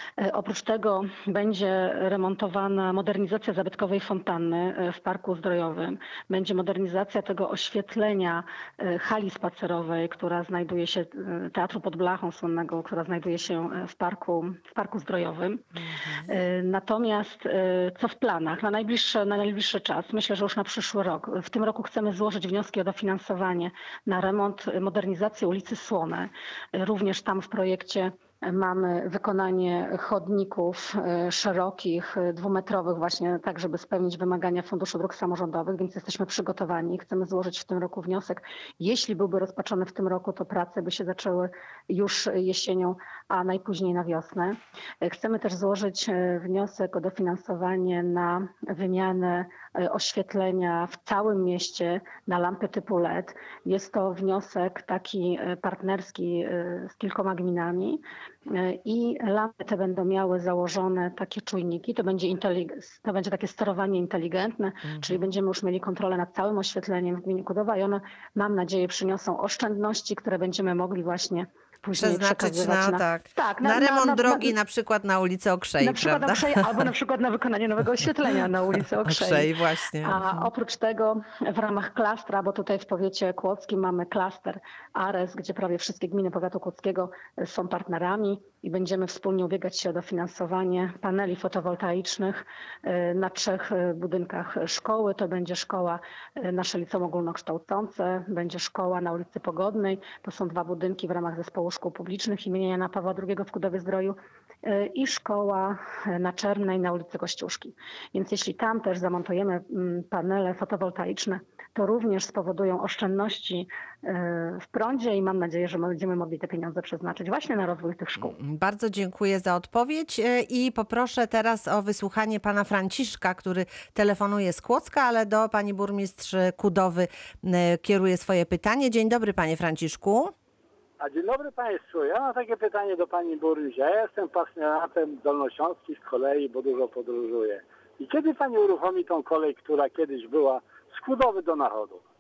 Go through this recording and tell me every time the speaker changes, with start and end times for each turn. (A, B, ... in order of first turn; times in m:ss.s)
0:00.2-0:15.6 A
0:15.8-0:16.3 B
0:16.3-1:14.5 A
1:04.9-1:05.2 B
1:11.9-1:16.6 B
1:15.8-1:19.5 A
1:19.0-1:20.5 B
1:20.0-1:58.4 A
1:58.2-2:10.3 B
2:11.0-2:22.0 C